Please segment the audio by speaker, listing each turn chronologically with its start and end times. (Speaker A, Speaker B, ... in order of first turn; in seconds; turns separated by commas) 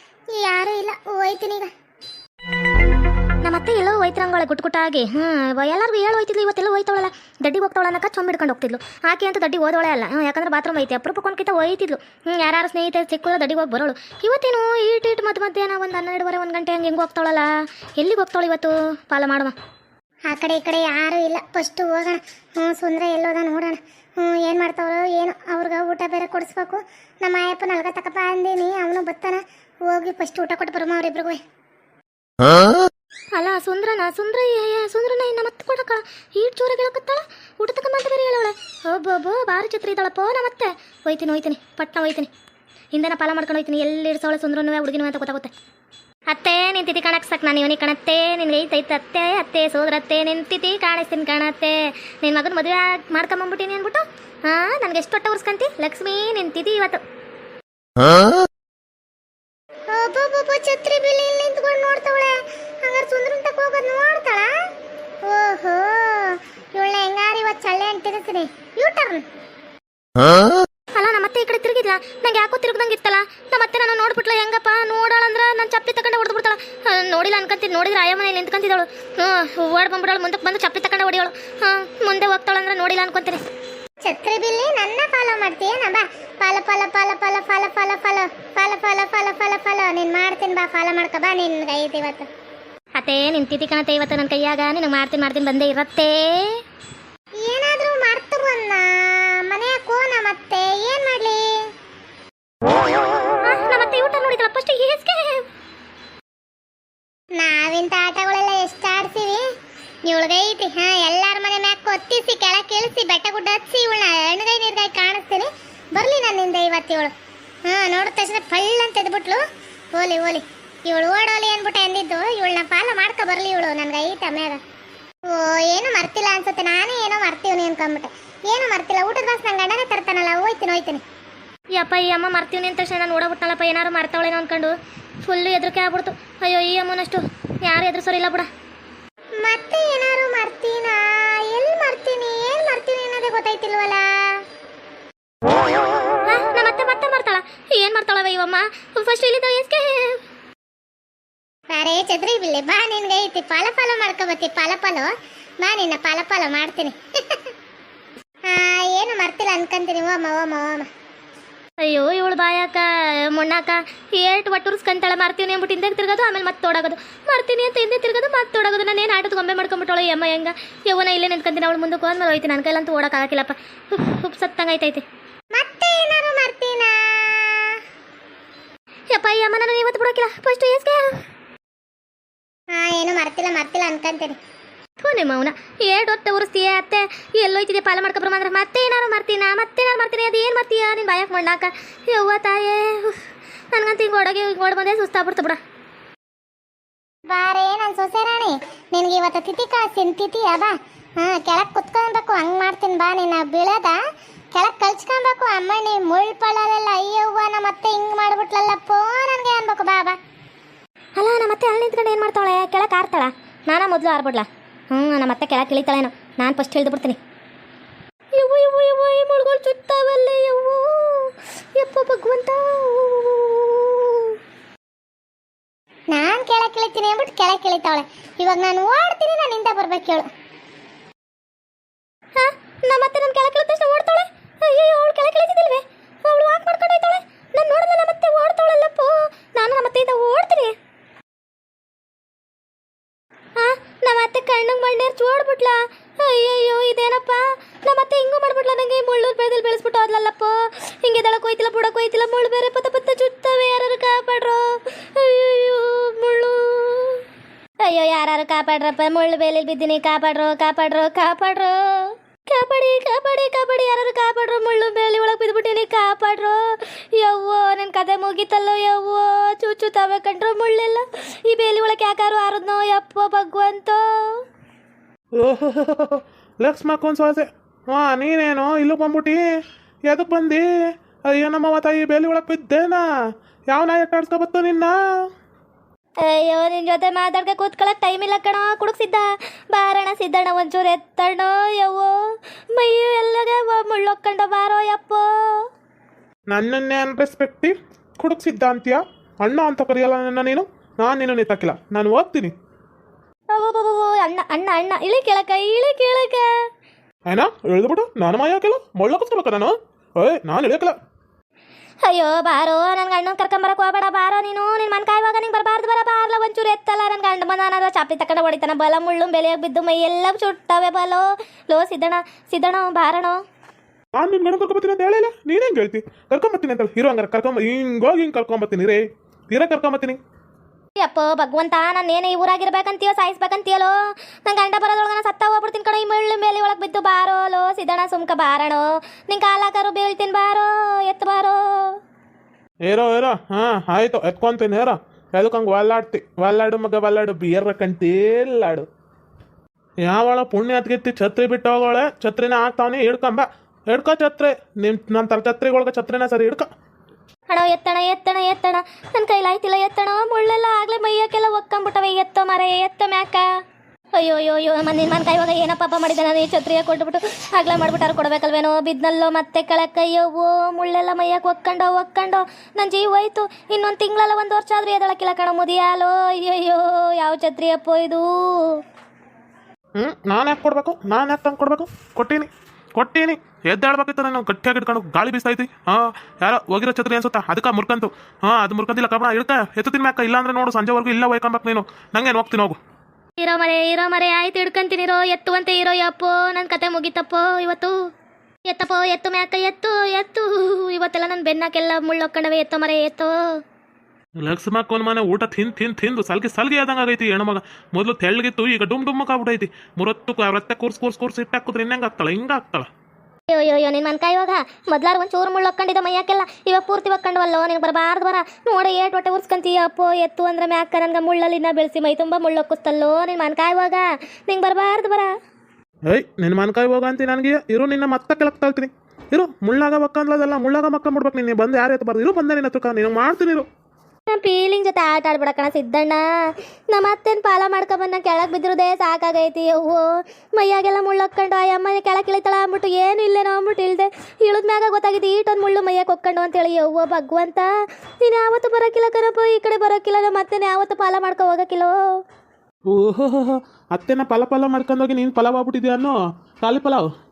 Speaker A: 0.3-1.7, Speaker B: 3.4-19.6, Speaker A: 20.3-31.4, Speaker B: 33.4-42.3, Speaker B: 42.9-45.5, Speaker B: 46.3-57.0, Speaker A: 59.9-64.5, Speaker A: 65.2-69.2, Speaker B: 71.0-83.4, Speaker A: 84.0-92.3, Speaker B: 93.0-96.6, Speaker A: 97.4-101.7, Speaker B: 103.5-105.4, Speaker A: 107.4-109.5, Speaker A: 110.1-117.1, Speaker A: 117.7-119.4, Speaker A: 119.9-124.6, Speaker A: 125.3-131.0, Speaker B: 131.8-138.5, Speaker A: 139.4-144.4, Speaker B: 146.3-150.2, Speaker A: 151.7-157.4, Speaker A: 158.5-160.9, Speaker B: 161.8-175.0, Speaker A: 175.5-177.8, Speaker B: 179.1-181.2, Speaker A: 182.7-184.4, Speaker B: 185.0-193.2, Speaker B: 193.7-195.6, Speaker A: 197.3-204.0, Speaker A: 204.5-210.2, Speaker B: 211.2-217.2, Speaker B: 218.4-224.3, Speaker A: 226.1-230.3, Speaker B: 232.4-240.7, Speaker B: 243.6-257.2, Speaker B: 257.8-266.6, Speaker B: 267.1-274.0, Speaker C: 275.4-279.4, Speaker C: 280.1-280.6, Speaker C: 281.3-283.0, Speaker C: 283.7-284.9, Speaker B: 286.2-292.1, Speaker B: 292.8-295.7, Speaker C: 296.5-302.5, Speaker B: 303.5-306.5, Speaker C: 307.3-311.0, Speaker B: 312.0-323.4, Speaker C: 324.1-330.2, Speaker B: 331.0-342.0, Speaker C: 342.9-348.9, Speaker C: 350.0-356.7, Speaker B: 357.5-363.5, Speaker B: 364.2-378.8, Speaker C: 380.0-392.8, Speaker B: 393.4-398.0, Speaker B: 398.7-403.6, Speaker C: 404.4-412.9, Speaker B: 413.5-425.3, Speaker C: 426.1-433.7, Speaker B: 434.3-436.2, Speaker B: 436.9-447.7, Speaker B: 448.2-452.0, Speaker C: 452.9-457.1